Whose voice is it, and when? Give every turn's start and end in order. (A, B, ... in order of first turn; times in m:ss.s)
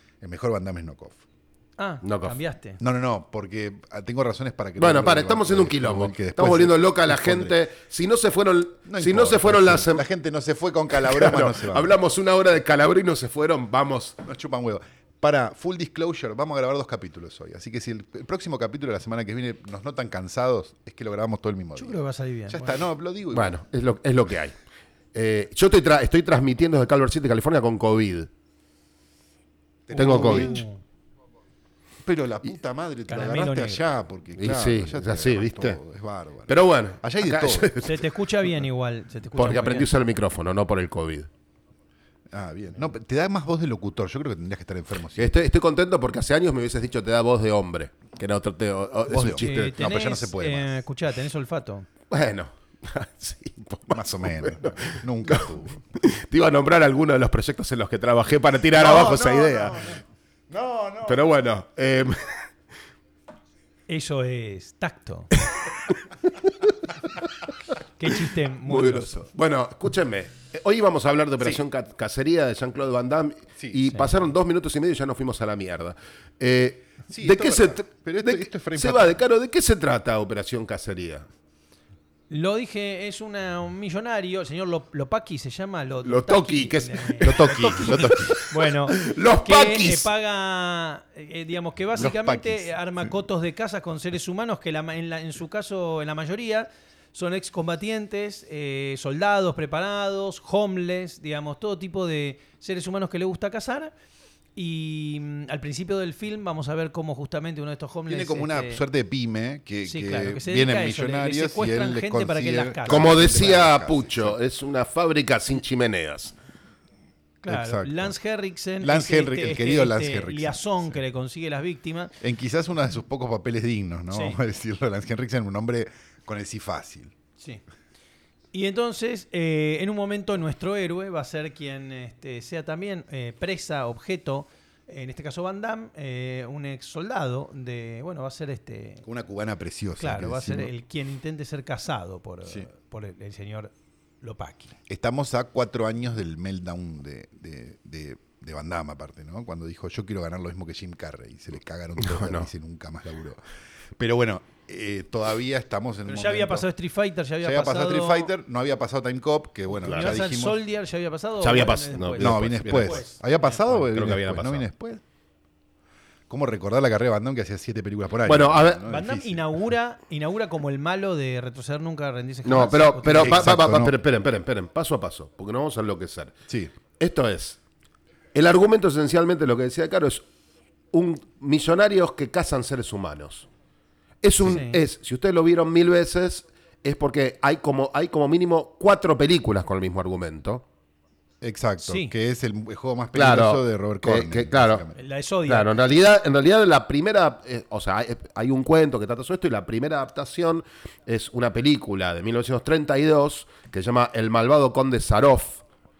0:00.2-0:01.2 A
0:01.8-0:02.8 B
0:02.0-0:02.4 C
0:02.8-0:07.6 A
0:04.8-0:10.0 C
0:08.9-0:12.0 A
0:10.9-0:14.2 C
0:14.2-0:23.6 A
0:21.8-0:22.8 B
0:23.3-0:24.6 C
0:25.1-0:28.3 C
0:29.9-0:30.6 A
0:29.9-0:30.6 C
0:29.9-0:30.8 B
0:32.0-0:37.7 A
0:33.1-0:33.8 B
0:34.4-0:35.8 C
0:36.5-0:38.1 C
0:37.8-0:40.0 B
0:39.4-0:41.3 C
0:42.3-0:45.3 A
0:45.2-0:50.0 C
0:49.1-0:50.7 A
0:49.4-0:51.9 B
0:52.1-0:59.9 C
0:53.9-0:55.8 A
0:58.7-1:01.2 A
1:01.1-1:02.5 C
1:03.9-1:05.3 B
1:08.0-1:09.3 B
1:08.6-1:21.3 C
1:17.1-1:19.2 A
1:22.3-1:43.9 B
1:26.0-1:30.1 C
1:27.2-1:28.4 A
1:32.0-1:32.7 A
1:44.6-1:48.8 B
1:48.1-1:54.4 A
1:49.9-1:53.4 B
1:52.9-1:56.3 C
1:57.4-2:02.1 B
1:57.5-1:58.1 A
1:58.8-2:00.6 A
2:02.2-2:07.1 A
2:04.1-2:04.4 B
2:08.5-2:19.0 B
2:19.0-2:20.7 A
2:20.0-2:24.7 B
2:24.9-2:33.4 A
2:32.0-2:32.5 C
2:34.0-2:36.7 A
2:36.1-2:38.3 B
2:37.4-2:40.6 A
2:39.8-2:43.2 B
2:39.8-2:40.1 C
2:41.4-2:43.1 C
2:42.2-2:45.0 A
2:43.6-2:44.6 C
2:46.3-2:49.4 A
2:48.3-2:48.8 C
2:48.9-2:53.5 B
2:52.4-2:56.4 C
2:53.0-2:54.0 A
2:57.0-2:57.6 C
2:58.3-3:00.3 C
3:00.9-3:03.5 C
3:04.2-3:10.6 C
3:04.4-3:04.8 B
3:11.4-3:15.0 A
3:11.8-3:12.1 B
3:13.1-3:14.8 C
3:15.0-3:15.8 B
3:15.4-3:25.6 C